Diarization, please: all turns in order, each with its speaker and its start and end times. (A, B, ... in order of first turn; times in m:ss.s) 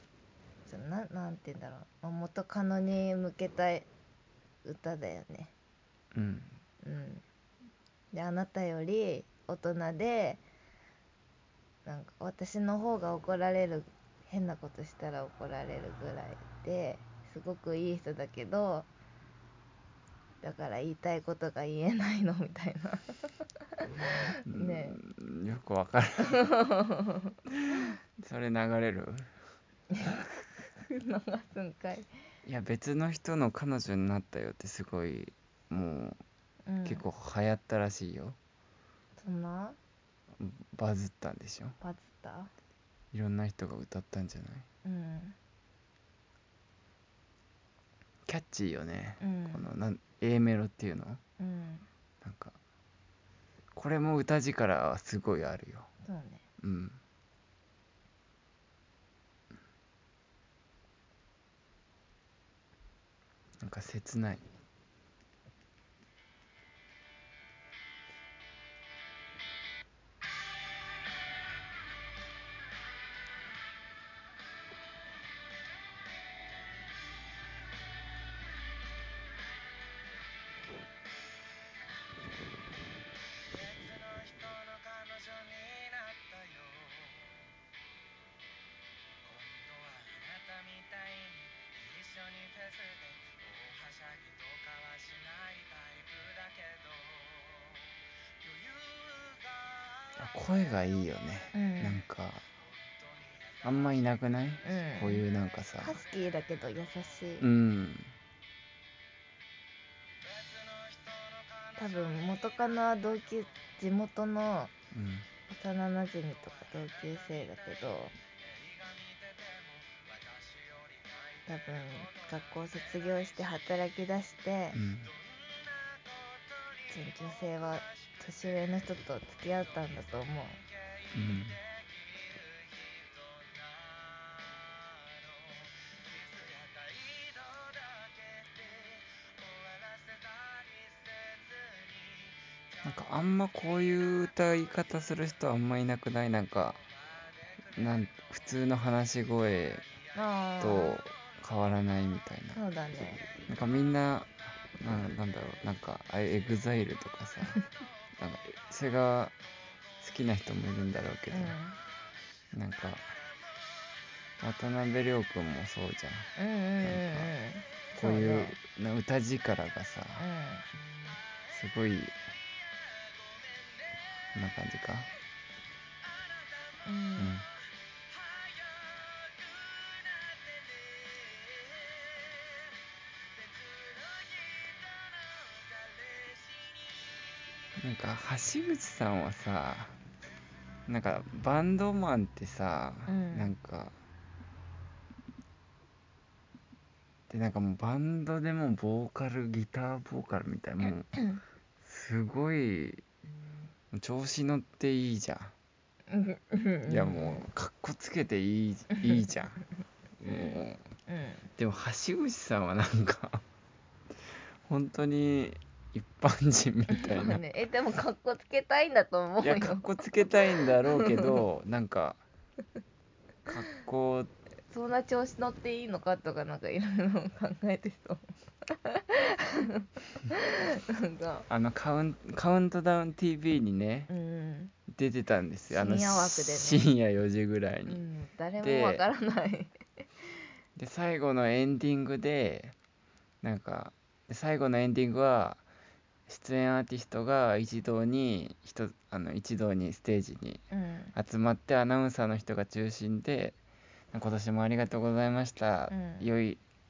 0:00.7-0:03.9 A
0:04.6-0:05.5 A
0:06.2-0:06.6 B
0:06.8-0:07.2 A
0:08.1-0:10.4 A
0:11.8-0:18.9 A
0:20.4-0:25.0 A
0:24.5-0:26.4 B
0:26.3-0:27.4 A
0:27.8-0:29.3 B
0:29.9-0:32.1 A
0:32.4-0:36.2 B
0:36.7-0:37.0 A
0:36.8-0:38.4 B
0:39.2-0:39.8 A
0:40.4-0:41.8 B
0:41.8-0:42.5 A
0:43.1-0:44.7 B
0:44.8-0:45.4 A
0:48.3-0:51.2 B
0:49.2-0:49.7 A
0:51.4-0:51.9 A
0:52.2-0:52.6 B
0:53.8-0:55.9 B
0:56.0-0:56.4 A
0:56.6-0:57.0 B
1:03.6-1:04.4 B
1:23.7-1:27.2 C
1:29.4-1:37.4 C
1:40.2-1:42.5 B
1:41.6-1:42.0 A
1:43.6-1:46.0 B
1:44.6-1:45.2 A
1:45.8-1:47.5 A
1:47.4-1:48.1 B
1:51.8-1:54.7 A
1:54.9-1:55.3 B
1:55.5-1:58.2 A
2:01.5-2:04.8 A
2:04.7-2:05.1 B
2:06.9-2:10.6 A
2:11.1-2:11.6 B
2:16.1-2:20.6 C
2:22.8-2:26.8 B
2:27.7-2:29.9 B
2:30.1-2:31.0 A
2:30.6-2:32.6 B
2:32.5-2:33.3 A
2:33.4-2:37.6 B
2:38.2-2:39.4 B
2:40.0-2:41.6 B
2:41.3-2:41.8 A
2:42.5-2:43.2 B
2:44.4-2:46.3 B
2:46.4-2:48.6 A
2:46.8-2:47.3 B
2:48.0-2:50.2 B
2:50.2-2:50.7 A
2:51.5-2:52.2 B
2:54.3-2:55.1 B
2:56.8-2:57.3 A
2:57.2-2:57.5 B
2:59.8-3:00.3 C
3:01.0-3:02.2 C
3:04.5-3:04.8 C
3:07.8-3:10.0 B
3:10.9-3:14.0 B
3:13.1-3:13.6 A
3:17.3-3:21.1 B
3:20.9-3:21.4 A
3:21.8-3:23.0 B
3:23.9-3:25.6 B
3:26.1-3:27.4 A
3:26.9-3:29.6 B
3:29.0-3:29.2 A
3:30.2-3:30.8 B
3:30.3-3:31.5 A
3:31.6-3:33.4 B
3:34.6-3:37.4 B
3:36.9-3:39.9 A
3:39.4-3:42.2 B
3:43.5-3:44.3 B
3:44.7-3:51.5 A
3:51.5-3:54.1 B
3:54.1-3:54.7 A
3:54.9-3:58.0 B
3:55.7-3:56.9 A
3:57.9-4:00.4 A
3:58.6-3:59.0 B
4:00.8-4:02.8 B
4:03.4-4:05.6 B
4:06.3-4:13.6 B
4:10.7-4:11.1 A
4:14.1-4:16.6 B
4:15.9-4:16.3 A